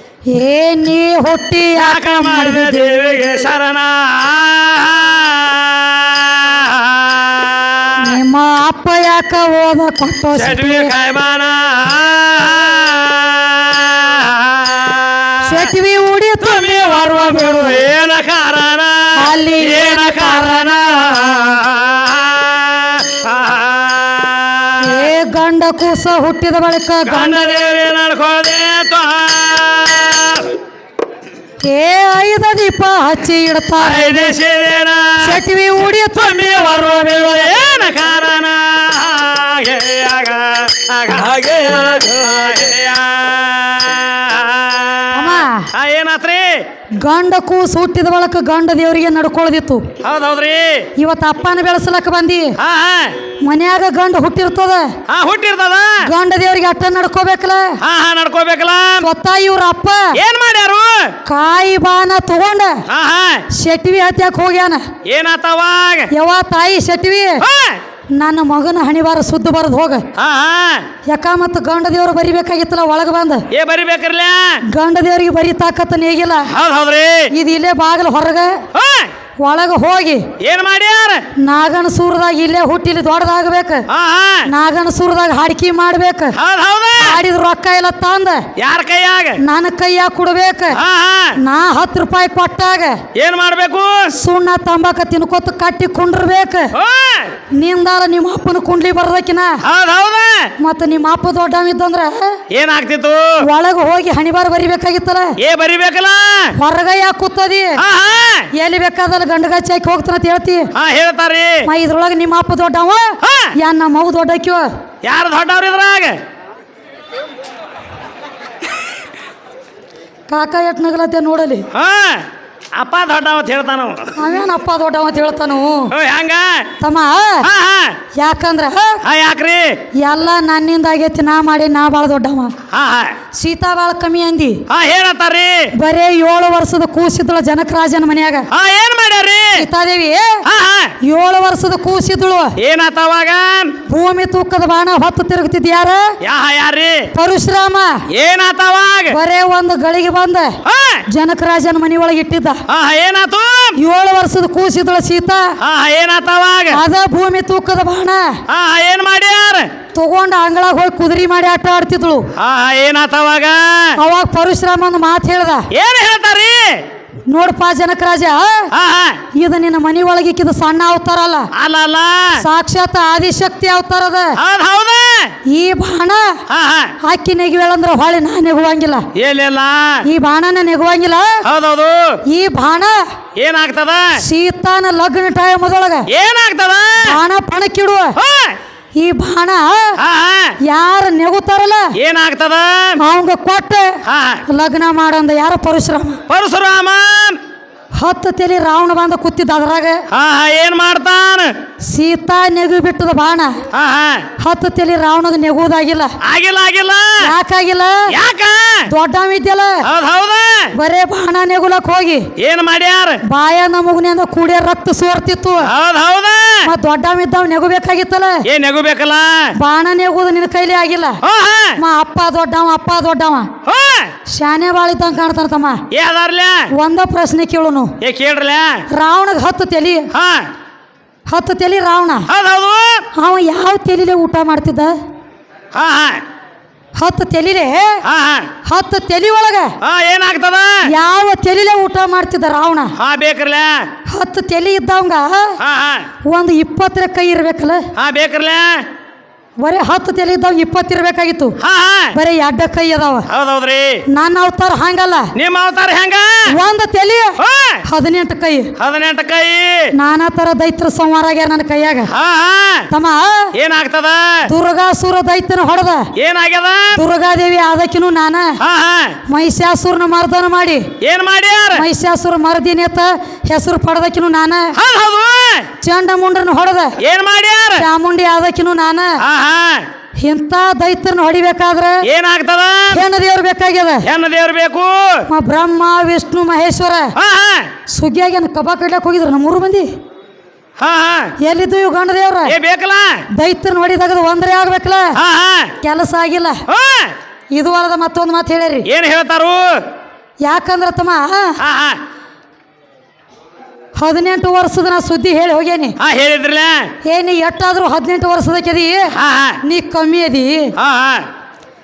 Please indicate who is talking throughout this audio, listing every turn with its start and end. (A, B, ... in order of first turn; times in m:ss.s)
0:00.3-0:03.0 A
0:01.8-0:08.1 B
0:08.0-0:10.9 A
0:10.3-0:15.6 B
0:15.4-0:17.7 A
0:16.4-0:25.1 B
0:19.2-0:20.7 A
0:24.8-0:27.5 A
0:27.0-0:30.6 B
0:31.6-0:34.4 A
0:33.8-0:35.4 B
0:35.2-0:37.1 A
0:36.1-0:46.6 B
0:45.1-0:45.7 A
0:47.0-0:49.9 A
0:50.0-0:50.9 B
0:51.0-0:52.5 A
0:52.6-0:53.2 B
0:53.4-0:55.0 A
0:55.1-0:56.0 B
0:56.0-0:57.8 A
0:57.8-0:59.0 B
0:59.0-1:00.2 A
1:00.1-1:01.1 B
1:01.2-1:02.8 A
1:02.9-1:03.4 B
1:03.5-1:04.9 A
1:05.0-1:06.1 B
1:06.1-1:07.4 A
1:07.4-1:07.8 B
1:08.2-1:10.0 A
1:10.1-1:10.9 B
1:11.0-1:13.5 A
1:13.5-1:14.6 B
1:14.7-1:16.5 A
1:16.5-1:17.3 B
1:17.3-1:18.6 A
1:18.7-1:19.1 B
1:19.4-1:20.3 A
1:20.4-1:21.2 B
1:21.4-1:23.9 A
1:23.9-1:24.5 B
1:24.5-1:26.4 A
1:26.4-1:27.2 B
1:27.0-1:28.4 A
1:28.6-1:29.4 B
1:29.4-1:30.8 A
1:30.7-1:31.4 B
1:31.4-1:33.0 A
1:33.2-1:34.1 B
1:34.2-1:36.7 A
1:36.8-1:37.3 B
1:37.5-1:39.6 A
1:39.6-1:40.5 B
1:40.6-1:42.4 A
1:42.5-1:43.4 B
1:43.4-1:45.4 A
1:45.4-1:46.5 B
1:46.6-1:47.8 A
1:47.8-1:48.5 B
1:48.5-1:50.7 A
1:50.8-1:51.6 B
1:51.6-1:54.7 A
1:53.2-1:53.5 B
1:55.0-1:56.2 B
2:00.3-2:01.6 A
2:01.7-2:04.1 B
2:04.2-2:05.9 A
2:05.9-2:06.7 B
2:06.8-2:07.5 A
2:07.4-2:08.0 B
2:08.1-2:09.0 A
2:09.0-2:09.8 B
2:10.0-2:12.5 A
2:12.7-2:13.1 B
2:13.4-2:14.6 A
2:14.7-2:15.7 B
2:15.8-2:18.5 A
2:18.5-2:19.6 B
2:19.6-2:20.4 A
2:20.5-2:21.0 B
2:21.0-2:22.5 A
2:22.6-2:23.8 B
2:23.9-2:26.1 A
2:26.2-2:27.1 B
2:27.1-2:28.0 A
2:28.1-2:29.2 B
2:29.1-2:32.6 A
2:30.6-2:31.0 B
2:32.7-2:33.7 B
2:33.8-2:35.5 A
2:35.6-2:36.8 B
2:36.7-2:38.4 A
2:38.5-2:39.7 B
2:39.9-2:42.3 A
2:42.4-2:44.0 B
2:44.0-2:45.7 A
2:45.7-2:46.8 B
2:47.3-2:48.7 A
2:48.7-2:49.2 B
2:49.3-2:51.5 A
2:51.5-2:52.4 B
2:52.4-2:54.4 A
2:54.4-2:55.3 B
2:55.5-2:56.4 A
2:56.5-2:56.9 B
2:57.0-2:59.1 A
2:59.1-3:00.0 B
3:00.0-3:01.4 A
3:01.4-3:02.2 B
3:02.3-3:03.1 A
3:03.4-3:04.2 B
3:04.2-3:06.1 A
3:06.1-3:07.2 B
3:07.0-3:08.2 A
3:08.2-3:08.6 B
3:09.0-3:10.0 A
3:10.0-3:10.6 B
3:10.6-3:12.0 A
3:12.0-3:13.0 B
3:13.0-3:16.2 A
3:14.0-3:14.4 B
3:16.3-3:17.4 B
3:18.0-3:20.0 A
3:20.1-3:21.5 B
3:21.8-3:23.6 A
3:23.7-3:24.3 B
3:24.4-3:26.1 A
3:26.2-3:27.3 B
3:27.2-3:28.1 A
3:28.1-3:28.9 B
3:28.9-3:29.8 A
3:29.8-3:30.7 B
3:30.8-3:32.3 A
3:32.4-3:33.2 B
3:33.2-3:35.7 A
3:35.6-3:36.7 B
3:36.6-3:38.4 A
3:38.5-3:39.5 B
3:39.6-3:41.2 A
3:41.2-3:41.8 B
3:41.8-3:43.5 A
3:43.6-3:44.1 B
3:44.3-3:45.8 A
3:45.9-3:46.7 B
3:46.8-3:48.0 A
3:48.0-3:48.8 B
3:48.9-3:50.1 A
3:50.1-3:50.5 B
3:51.3-3:52.3 A
3:52.3-3:53.0 B
3:53.1-3:55.0 A
3:55.7-3:56.2 B
3:57.0-3:58.0 A
3:58.0-3:58.5 B
3:58.6-3:59.7 A
3:59.8-4:00.8 B
4:00.9-4:02.9 A
4:03.0-4:03.9 B
4:04.0-4:05.6 A
4:05.6-4:06.1 B
4:06.2-4:07.9 A
4:08.0-4:08.8 B
4:09.6-4:11.6 A
4:11.6-4:12.1 B
4:12.1-4:13.2 A
4:13.3-4:14.0 B
4:14.1-4:15.3 A
4:15.4-4:16.5 B
4:16.5-4:18.7 A
4:17.4-4:17.8 B
4:18.8-4:19.9 B
4:19.9-4:22.1 A
4:22.1-4:22.9 B
4:22.9-4:23.5 A
4:23.5-4:24.4 B
4:24.5-4:26.1 A
4:26.2-4:27.0 B
4:26.9-4:28.6 A
4:28.6-4:29.2 B
4:29.3-4:30.9 A
4:31.0-4:31.9 B
4:31.7-4:34.8 A
4:34.8-4:35.7 B
4:35.8-4:37.0 A
4:37.0-4:37.9 B
4:37.8-4:39.2 A
4:39.2-4:39.9 B
4:40.2-4:42.0 A
4:42.0-4:43.0 B
4:42.9-4:44.0 A
4:44.0-4:45.2 B
4:45.3-4:47.1 A
4:47.2-4:47.7 B
4:47.9-4:49.9 A
4:50.8-4:51.3 B
4:51.4-4:52.6 A
4:52.4-4:53.2 B
4:53.3-4:55.2 A
4:55.2-4:55.7 B
4:55.8-4:56.6 A
4:56.7-4:57.1 B
4:57.6-4:58.9 A
4:58.9-4:59.8 B
5:00.4-5:01.6 A
5:01.6-5:02.0 B
5:03.9-5:06.0 A
5:06.0-5:06.9 B
5:07.0-5:10.7 A
5:09.1-5:09.6 B
5:10.8-5:11.3 B